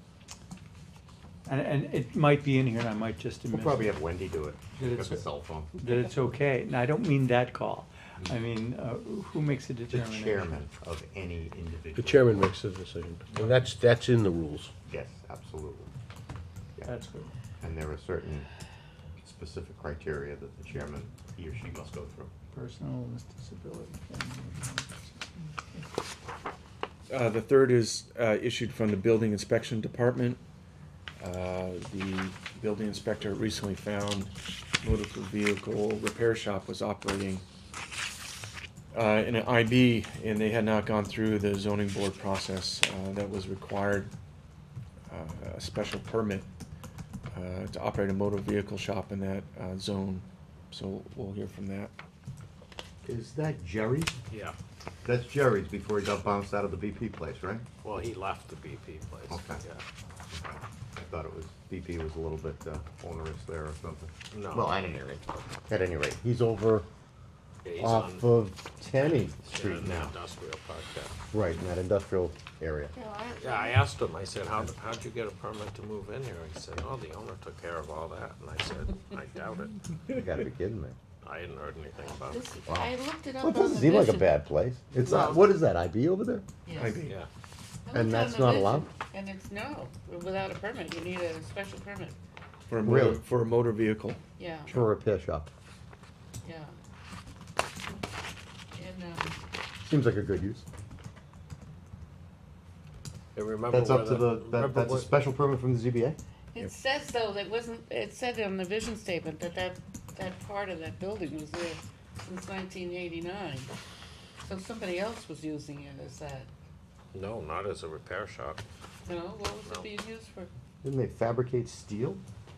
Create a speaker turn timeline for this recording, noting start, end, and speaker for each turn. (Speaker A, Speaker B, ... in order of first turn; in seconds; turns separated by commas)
Speaker A: 1.4-4.0, Speaker B: 3.5-5.7, Speaker A: 4.8-10.6, Speaker B: 9.9-12.5, Speaker C: 11.9-14.7, Speaker B: 14.9-15.9, Speaker A: 16.9-17.3, Speaker B: 17.6-18.5, Speaker B: 19.2-22.3, Speaker A: 22.5-25.9, Speaker D: 27.1-30.4, Speaker D: 31.2-34.3, Speaker D: 34.8-37.4, Speaker D: 38.9-44.1, Speaker D: 45.1-46.5, Speaker D: 47.3-51.9, Speaker B: 53.0-54.1, Speaker E: 54.3-54.5, Speaker B: 55.0-57.6, Speaker E: 57.8-59.8, Speaker B: 59.3-59.6, Speaker B: 60.3-66.9, Speaker E: 64.3-64.8, Speaker E: 67.6-68.3, Speaker B: 67.8-70.1, Speaker E: 69.0-71.1, Speaker B: 71.3-72.9, Speaker F: 72.9-73.9, Speaker E: 73.4-79.8, Speaker B: 80.1-81.0, Speaker E: 81.2-82.5, Speaker F: 82.1-84.3, Speaker B: 82.7-86.5, Speaker F: 85.0-85.5, Speaker F: 86.6-87.0, Speaker D: 86.7-87.1, Speaker F: 87.8-92.2, Speaker B: 87.9-88.9, Speaker D: 92.7-94.2, Speaker B: 92.8-93.2, Speaker F: 94.4-94.8, Speaker B: 94.7-95.5, Speaker F: 96.4-96.7, Speaker F: 98.8-99.3, Speaker B: 99.8-100.7, Speaker E: 103.3-105.1, Speaker B: 103.7-106.2, Speaker F: 106.5-113.7, Speaker F: 114.4-116.5, Speaker E: 117.1-118.6, Speaker F: 119.0-120.5, Speaker E: 119.6-119.9, Speaker B: 120.8-122.2